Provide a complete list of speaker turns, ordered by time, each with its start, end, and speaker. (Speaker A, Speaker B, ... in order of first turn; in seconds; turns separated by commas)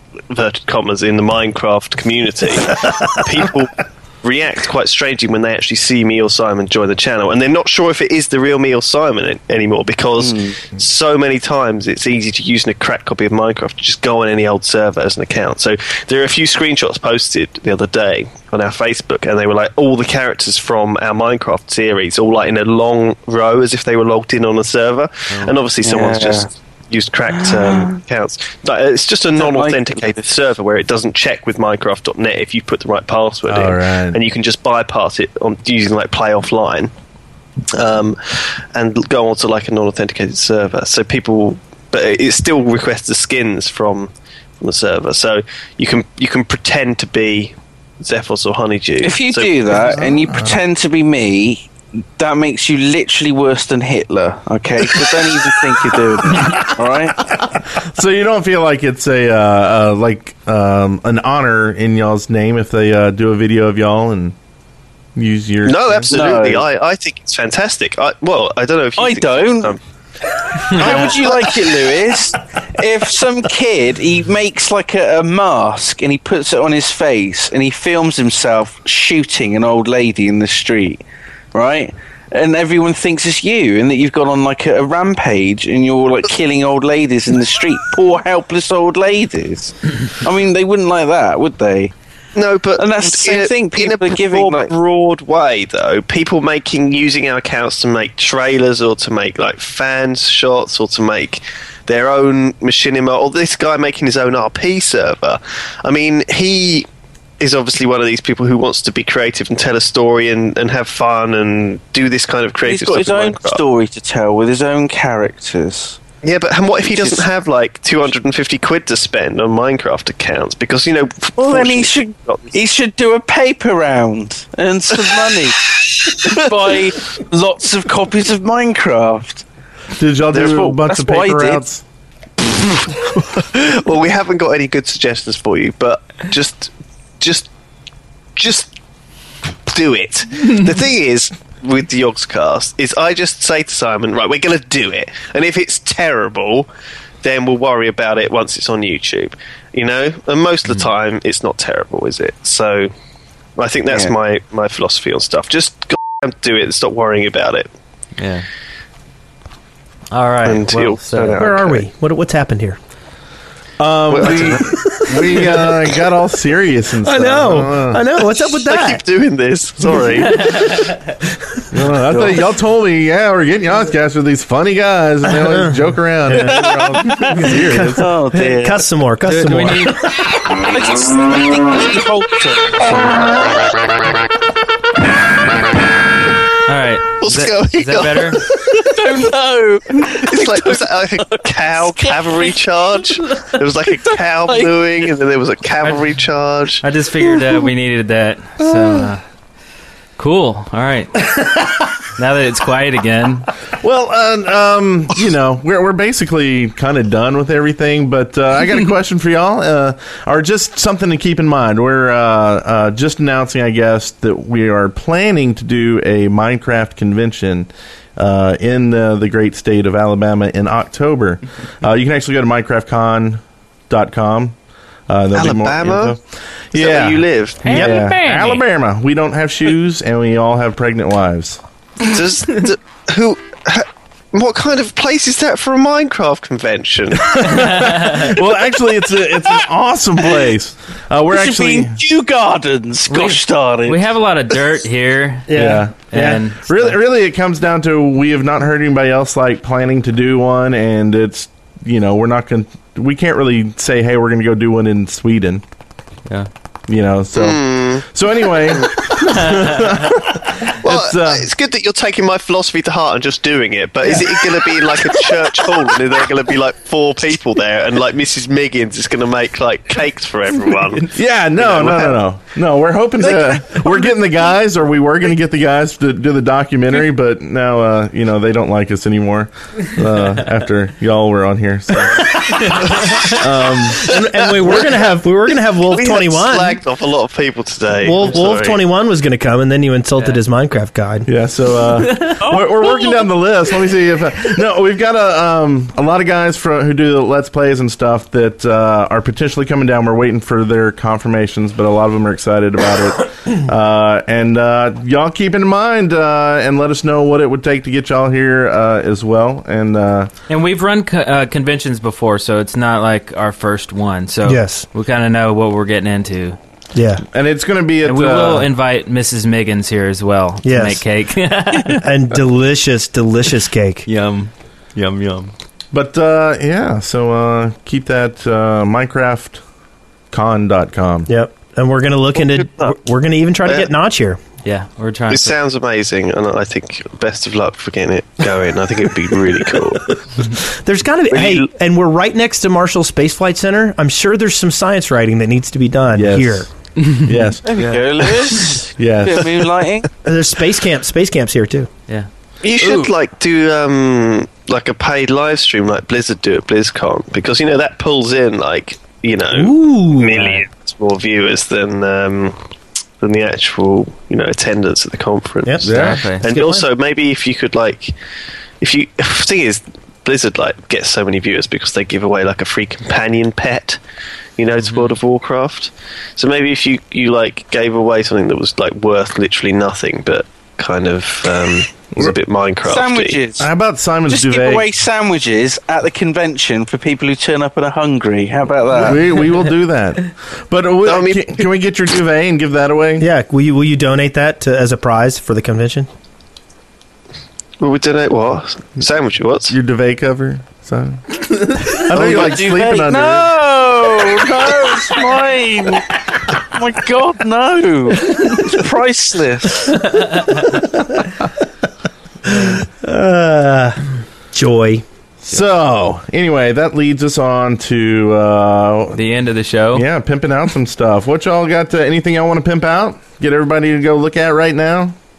Speaker A: 0.3-36.9, Speaker B: 10.2-10.6, Speaker B: 25.8-26.5, Speaker B: 27.3-27.9, Speaker B: 29.4-30.4, Speaker C: 33.5-34.2, Speaker A: 37.7-50.0, Speaker B: 49.0-57.3, Speaker C: 50.1-50.6, Speaker C: 56.3-56.6, Speaker C: 57.2-64.3, Speaker C: 65.2-66.2, Speaker A: 65.6-69.8, Speaker B: 66.1-66.7, Speaker B: 69.0-69.8, Speaker A: 70.7-72.0, Speaker D: 70.7-71.0, Speaker B: 70.7-81.0, Speaker B: 81.5-91.9, Speaker A: 92.3-106.9, Speaker B: 92.8-94.7, Speaker A: 107.4-113.6, Speaker B: 112.6-116.0, Speaker A: 116.2-122.6, Speaker B: 116.9-117.3, Speaker B: 121.4-129.4, Speaker C: 129.9-131.8, Speaker B: 130.3-131.6, Speaker A: 132.6-137.5, Speaker A: 138.3-138.7, Speaker A: 139.7-146.7, Speaker A: 147.2-152.9, Speaker A: 153.6-157.7, Speaker B: 153.9-154.1, Speaker D: 158.2-158.4, Speaker D: 160.1-161.4, Speaker A: 160.4-161.8, Speaker E: 161.4-162.8, Speaker C: 163.8-168.0, Speaker A: 164.1-165.7, Speaker E: 167.0-169.0, Speaker A: 168.6-170.8, Speaker D: 170.4-171.0, Speaker C: 171.7-178.1, Speaker B: 176.6-177.0, Speaker E: 177.3-180.0, Speaker B: 178.0-178.8, Speaker D: 179.3-180.1, Speaker B: 180.5-183.7, Speaker D: 186.7-188.4, Speaker A: 187.2-188.8, Speaker B: 188.6-192.6, Speaker A: 190.2-196.8, Speaker B: 194.0-194.8, Speaker D: 196.8-199.2, Speaker D: 200.2-203.5, Speaker C: 203.8-224.6, Speaker C: 225.1-231.6, Speaker A: 225.3-226.2, Speaker A: 226.7-228.0, Speaker D: 227.6-228.6, Speaker A: 232.0-237.7, Speaker C: 237.2-242.0, Speaker D: 237.6-238.3, Speaker B: 241.3-244.0, Speaker D: 243.1-246.9, Speaker E: 245.5-246.4, Speaker C: 245.5-255.6, Speaker C: 256.9-261.5, Speaker A: 257.3-258.1, Speaker A: 258.7-259.1, Speaker A: 260.8-272.2, Speaker C: 271.1-282.7, Speaker C: 283.3-284.1, Speaker E: 283.9-286.8, Speaker A: 285.9-288.8, Speaker E: 288.0-291.3, Speaker C: 291.3-310.3, Speaker D: 310.5-316.6, Speaker E: 314.4-314.9, Speaker E: 316.9-317.2, Speaker C: 317.3-318.7, Speaker D: 318.1-322.1, Speaker E: 320.6-321.1, Speaker E: 322.0-324.1, Speaker D: 324.1-325.5, Speaker C: 325.9-329.6, Speaker C: 330.3-331.3, Speaker E: 331.3-334.4, Speaker A: 332.4-333.0, Speaker D: 334.6-335.5, Speaker A: 335.3-340.4, Speaker E: 340.8-346.7, Speaker A: 341.3-341.7, Speaker C: 346.1-347.6, Speaker B: 347.6-350.1, Speaker D: 347.8-348.1, Speaker C: 349.0-349.7, Speaker E: 350.2-351.9, Speaker A: 352.6-362.6, Speaker E: 359.5-360.6, Speaker A: 363.2-368.1, Speaker C: 365.8-366.3, Speaker D: 365.9-366.5, Speaker E: 366.4-366.9, Speaker A: 368.8-374.0, Speaker A: 374.6-383.4, Speaker B: 382.8-383.7, Speaker C: 383.6-384.9, Speaker B: 384.3-389.2, Speaker C: 389.0-393.3, Speaker A: 391.1-391.6, Speaker E: 393.2-396.1, Speaker A: 397.8-399.7, Speaker C: 399.7-403.5, Speaker B: 402.0-410.0, Speaker D: 410.1-410.8, Speaker E: 412.5-414.0, Speaker E: 414.5-415.0, Speaker C: 415.4-419.2, Speaker D: 419.1-420.0, Speaker C: 419.9-425.1